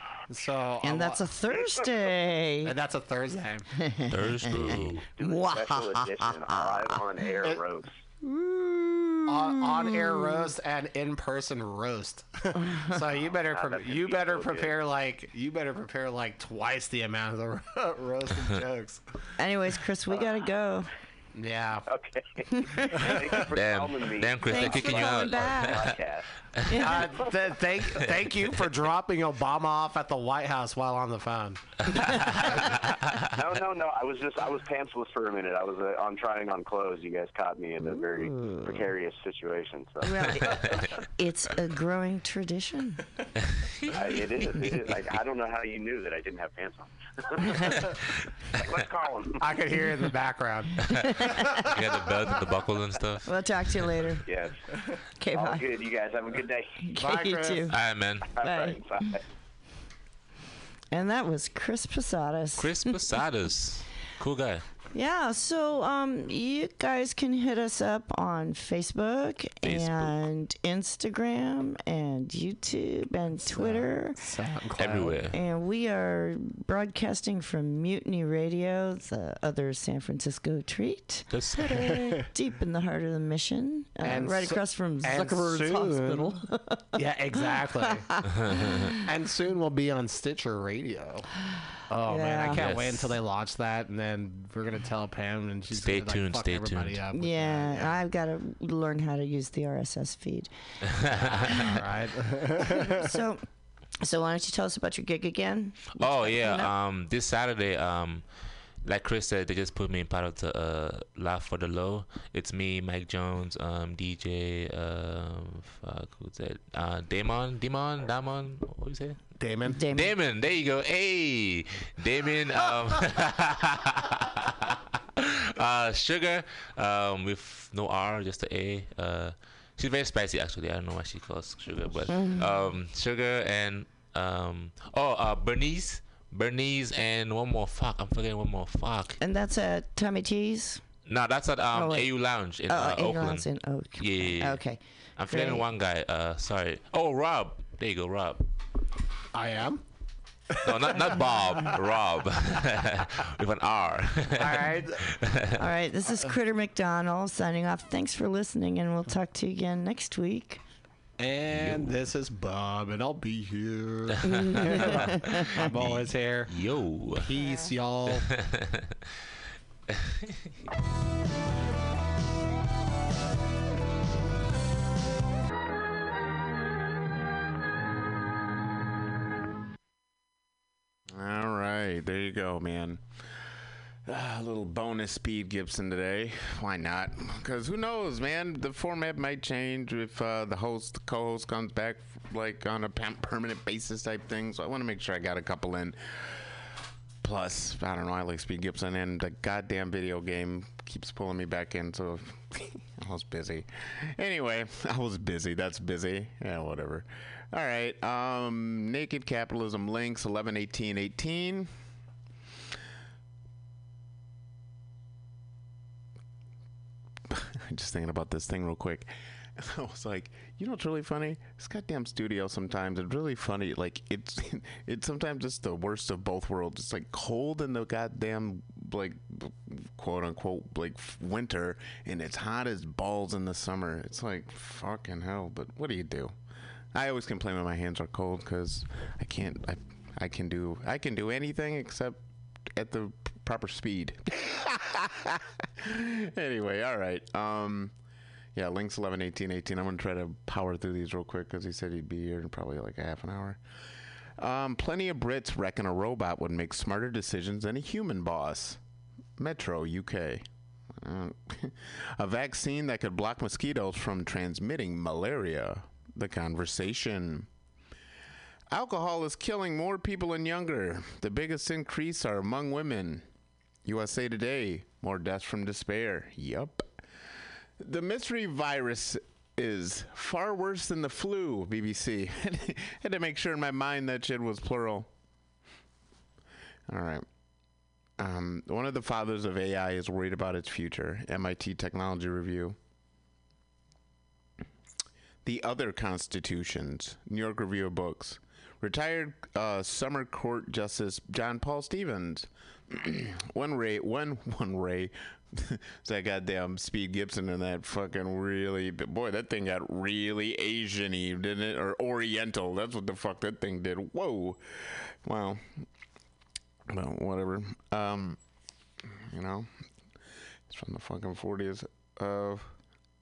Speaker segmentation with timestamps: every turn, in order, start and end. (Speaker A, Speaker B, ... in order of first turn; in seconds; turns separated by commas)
Speaker A: 0.3-1.2, Speaker B: 0.8-2.8, Speaker A: 2.6-3.7, Speaker B: 3.8-7.0, Speaker C: 4.1-5.0, Speaker D: 5.1-8.0, Speaker A: 9.3-19.3, Speaker D: 13.2-14.8, Speaker B: 19.4-20.9, Speaker A: 21.4-21.8, Speaker D: 21.9-26.3, Speaker B: 22.6-23.1, Speaker C: 23.5-25.9, Speaker B: 24.4-26.0, Speaker B: 26.7-27.3, Speaker A: 26.8-32.8, Speaker D: 33.3-40.8, Speaker B: 37.9-38.9, Speaker B: 40.0-43.0, Speaker D: 43.9-47.9, Speaker D: 48.5-49.5, Speaker A: 49.4-51.8, Speaker B: 51.2-51.6, Speaker C: 51.6-54.1, Speaker B: 53.3-54.2, Speaker D: 54.2-54.6, Speaker B: 55.2-55.6, Speaker D: 55.3-56.8, Speaker B: 56.8-57.7, Speaker A: 57.0-57.7, Speaker C: 57.7-58.3, Speaker D: 58.3-59.2, Speaker B: 58.4-58.8, Speaker B: 60.9-63.0, Speaker C: 62.6-64.7, Speaker B: 64.9-74.2, Speaker C: 69.6-70.2, Speaker A: 73.4-75.2, Speaker C: 74.8-75.3, Speaker B: 75.3-89.0, Speaker C: 81.3-81.9, Speaker A: 81.7-82.3, Speaker A: 84.0-86.3, Speaker A: 87.0-88.1, Speaker C: 88.4-88.9, Speaker A: 89.0-91.3, Speaker A: 91.9-98.0, Speaker B: 92.1-92.7, Speaker C: 92.5-93.1, Speaker C: 95.7-97.0, Speaker B: 97.1-101.8, Speaker A: 101.5-103.2, Speaker B: 102.7-103.5, Speaker B: 104.0-106.7, Speaker C: 106.0-119.3, Speaker A: 119.4-119.8, Speaker B: 119.8-120.1, Speaker C: 119.9-139.2, Speaker B: 132.1-132.5, Speaker B: 139.2-140.8, Speaker C: 141.1-148.4, Speaker B: 141.7-145.7, Speaker A: 149.3-149.8, Speaker A: 150.6-151.8, Speaker C: 150.6-155.5, Speaker A: 154.3-155.1, Speaker B: 155.6-160.6, Speaker A: 161.2-168.3, Speaker C: 161.5-161.9, Speaker B: 164.3-165.7, Speaker C: 164.8-167.3, Speaker C: 168.1-168.8, Speaker E: 181.1-183.5, Speaker E: 184.1-211.7, Speaker E: 217.3-236.3, Speaker E: 236.9-247.9, Speaker E: 248.6-253.6, Speaker E: 254.4-258.8, Speaker E: 259.4-267.5, Speaker E: 268.7-273.3, Speaker E: 273.9-276.9, Speaker E: 277.8-285.1, Speaker E: 286.9-287.3, Speaker E: 288.2-292.8, Speaker E: 295.4-315.9, Speaker E: 316.9-318.4, Speaker E: 319.0-319.7, Speaker E: 320.7-322.8